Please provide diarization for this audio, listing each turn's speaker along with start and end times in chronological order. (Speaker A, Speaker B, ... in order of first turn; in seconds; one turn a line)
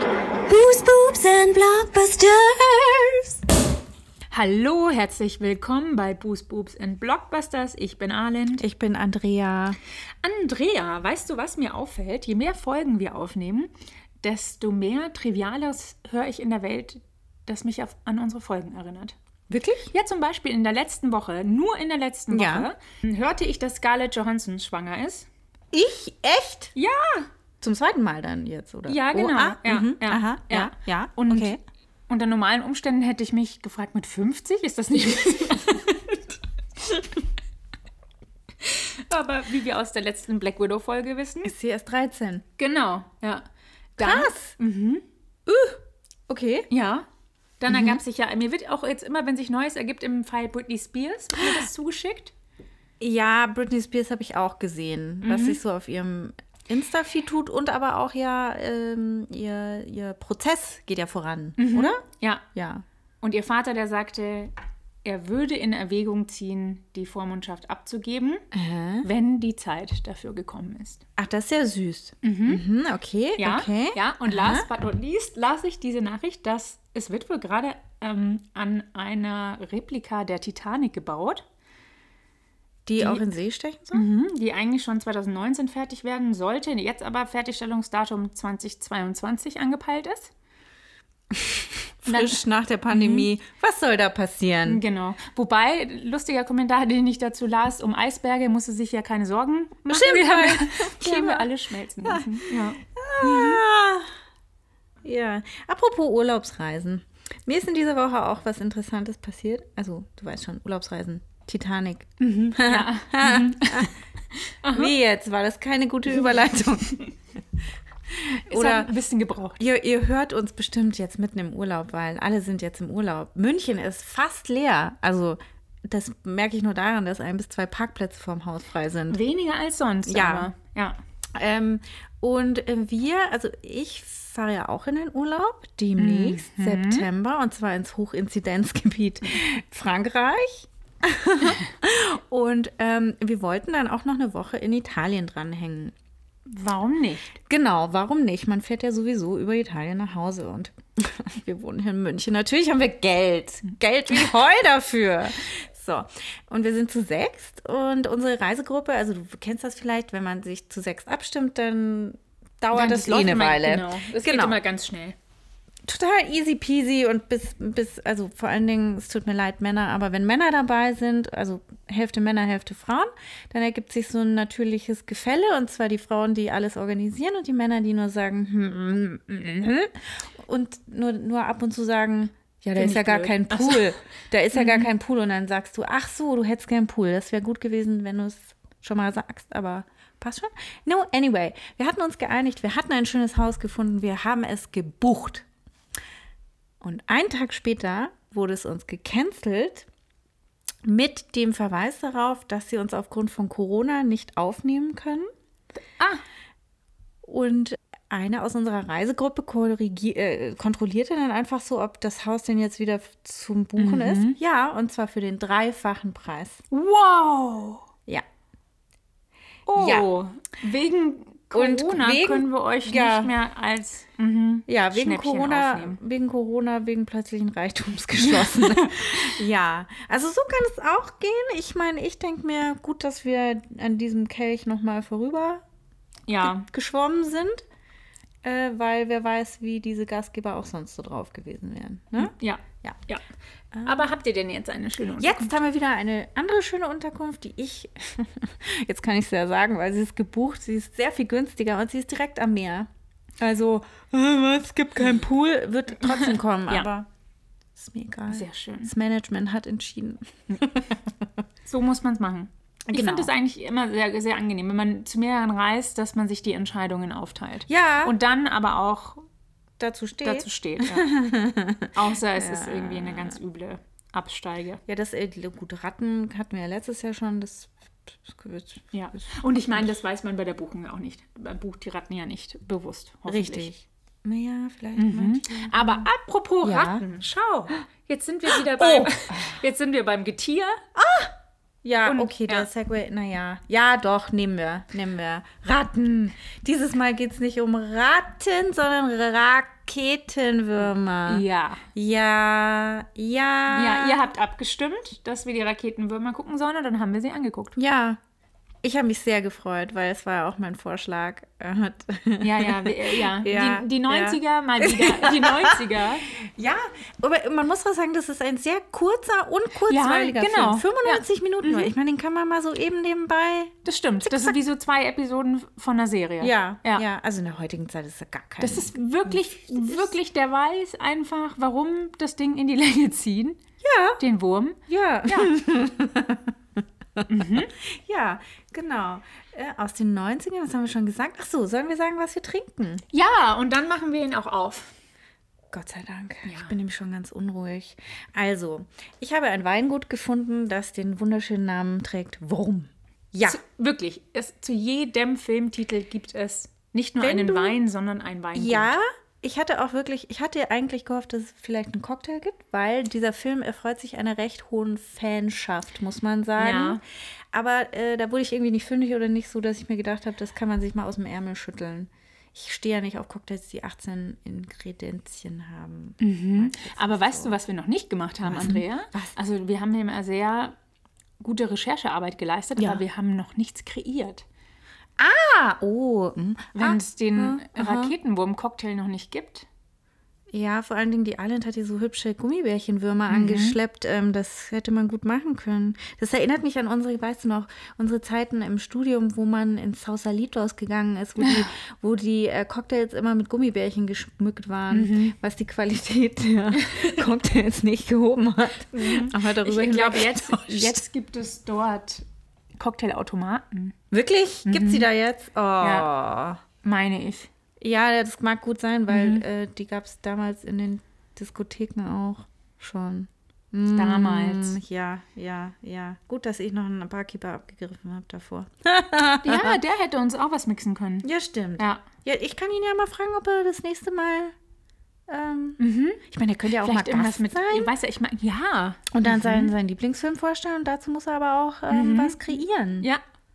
Speaker A: 0.5-3.0
Speaker B: 4.3-8.6
Speaker C: 8.6-9.8
Speaker B: 10.2-13.7
Speaker B: 14.2-19.2
Speaker C: 19.5-19.9
Speaker B: 19.9-25.3
Speaker C: 22.3-22.7
Speaker C: 25.7-26.7
Speaker B: 26.7-27.3
Speaker C: 27.6-31.6
Speaker B: 28.9-31.6
Speaker B: 32.1-36.0
Speaker B: 38.6-41.5
Speaker C: 41.4-42.5
Speaker B: 42.6-45.0
Speaker C: 44.0-44.5
Speaker C: 45.5-46.7
Speaker B: 46.7-47.1
Speaker B: 47.6-52.3
Speaker C: 47.7-48.0
Speaker C: 53.0-62.0
Speaker B: 55.2-55.6
Speaker B: 61.6-62.4
Speaker C: 62.5-62.8
Speaker B: 63.2-64.5
Speaker B: 65.0-68.4
Speaker C: 68.5-69.1
Speaker B: 69.0-71.0
Speaker C: 71.2-74.7
Speaker B: 72.2-72.6
Speaker B: 73.4-81.4
Speaker C: 82.9-84.0
Speaker B: 83.0-83.2
Speaker B: 83.9-90.3
Speaker C: 91.3-94.8
Speaker B: 92.0-92.4
Speaker B: 92.9-93.3
Speaker B: 94.7-103.6
Speaker C: 99.9-101.5
Speaker C: 102.0-104.1
Speaker C: 105.0-114.0
Speaker B: 112.2-114.9
Speaker C: 114.7-117.0
Speaker C: 118.1-119.0
Speaker B: 118.5-119.6
Speaker C: 119.6-129.2
Speaker B: 129.1-131.0
Speaker C: 130.1-130.5
Speaker C: 131.3-145.9
Speaker B: 136.0-137.1
Speaker B: 146.5-147.3
Speaker C: 147.4-164.6
Speaker B: 162.7-165.2
Speaker C: 165.8-195.5
Speaker B: 182.6-183.9
Speaker B: 184.5-184.9
Speaker C: 196.8-199.9
Speaker C: 200.8-205.3
Speaker C: 207.2-216.6
Speaker B: 213.8-214.4
Speaker B: 216.7-217.9
Speaker B: 219.7-226.0
Speaker C: 219.8-220.1
Speaker C: 221.5-223.3
Speaker C: 224.7-235.6
Speaker B: 228.2-229.4
Speaker B: 236.3-236.7
Speaker C: 236.4-237.7
Speaker C: 238.4-243.0
Speaker B: 242.2-243.2
Speaker C: 243.7-244.1
Speaker B: 243.8-245.5
Speaker C: 245.2-257.1
Speaker B: 256.1-256.9
Speaker C: 257.8-261.2
Speaker B: 258.3-258.9
Speaker B: 261.6-269.2
Speaker C: 262.9-263.3
Speaker C: 267.7-268.1
Speaker C: 269.8-273.4
Speaker B: 270.2-271.1
Speaker B: 271.9-274.8
Speaker C: 274.9-279.8
Speaker B: 278.9-283.7
Speaker C: 283.3-286.1
Speaker B: 285.0-290.8
Speaker C: 286.6-287.0
Speaker C: 288.5-289.6
Speaker C: 290.9-301.4
Speaker B: 292.0-292.7
Speaker B: 301.2-301.8
Speaker C: 301.9-304.2
Speaker B: 303.7-307.8
Speaker C: 307.8-308.2
Speaker C: 308.8-324.5
Speaker B: 312.4-316.3
Speaker B: 319.9-321.9
Speaker B: 323.9-327.0
Speaker C: 326.4-330.1
Speaker B: 328.6-333.6
Speaker C: 333.8-334.2
Speaker B: 334.2-335.6
Speaker C: 334.9-336.5
Speaker C: 337.2-343.0
Speaker B: 337.3-337.7
Speaker B: 343.1-344.9
Speaker C: 345.7-353.6
Speaker B: 346.5-346.7
Speaker B: 353.5-358.9
Speaker C: 357.2-357.8
Speaker C: 358.5-377.6
Speaker B: 366.6-367.0
Speaker B: 376.2-380.8
Speaker C: 378.4-379.4
Speaker B: 381.4-384.4
Speaker C: 382.8-383.0
Speaker C: 385.2-388.1
Speaker B: 386.8-389.7
Speaker C: 390.5-411.0
Speaker B: 393.3-393.8
Speaker B: 401.4-401.7
Speaker B: 404.9-405.4
Speaker B: 406.8-407.2
Speaker B: 408.9-412.2
Speaker B: 412.8-413.9
Speaker C: 414.1-416.6
Speaker B: 414.6-415.1
Speaker B: 415.8-416.1
Speaker B: 416.8-417.5
Speaker C: 417.8-429.8
Speaker B: 419.1-419.4
Speaker B: 423.9-424.8
Speaker B: 429.4-431.2
Speaker C: 431.2-434.5
Speaker B: 431.8-432.0
Speaker C: 435.3-437.9
Speaker B: 435.8-436.2
Speaker B: 436.8-439.7
Speaker C: 439.1-443.1
Speaker B: 441.9-442.4